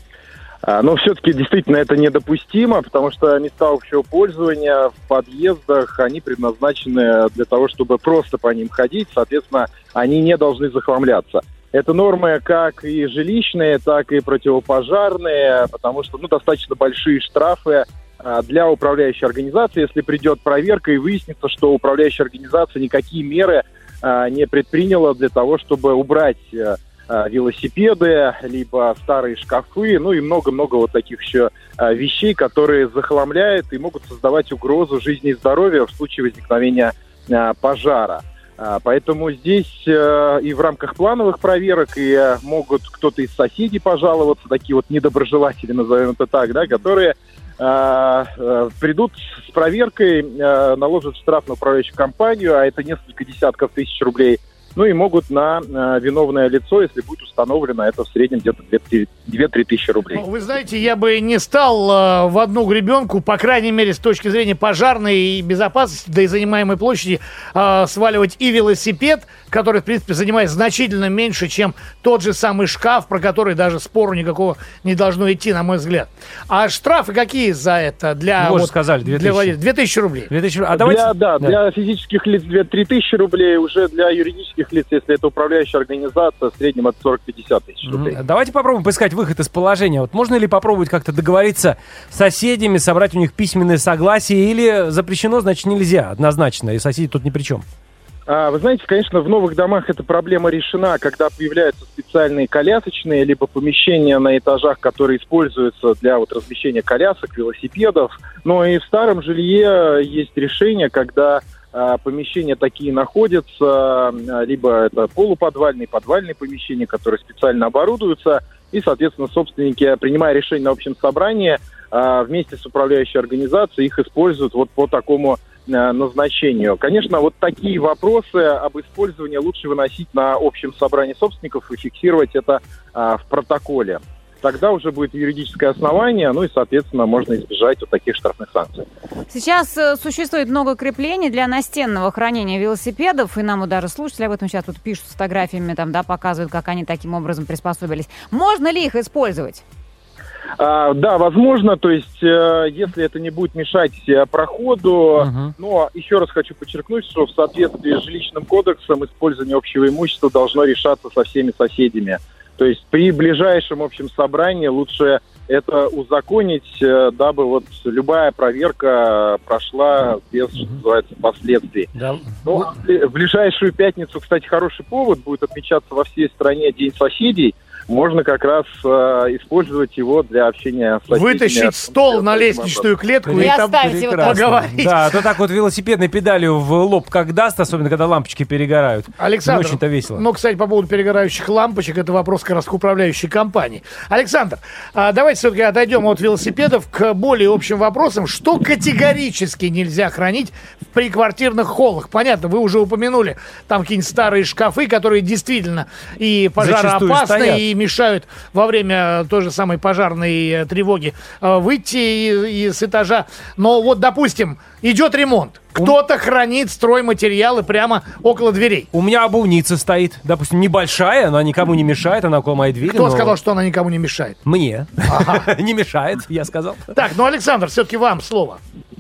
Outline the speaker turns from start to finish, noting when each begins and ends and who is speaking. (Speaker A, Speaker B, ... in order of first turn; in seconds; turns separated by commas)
Speaker A: 0.6-60.2, Speaker B: 60.1-80.3, Speaker C: 78.4-79.5, Speaker C: 80.3-81.6, Speaker A: 80.7-88.2, Speaker C: 87.9-97.6, Speaker A: 98.3-138.8, Speaker D: 139.3-149.6, Speaker A: 150.6-171.9, Speaker C: 155.2-155.5, Speaker C: 171.9-172.6, Speaker A: 172.4-182.9, Speaker B: 181.1-185.2, Speaker C: 183.2-190.2, Speaker D: 183.4-184.4, Speaker B: 189.2-218.9, Speaker C: 206.6-207.6, Speaker C: 218.9-223.3, Speaker B: 222.9-224.4, Speaker C: 224.4-227.0, Speaker B: 225.1-225.5, Speaker B: 226.9-228.6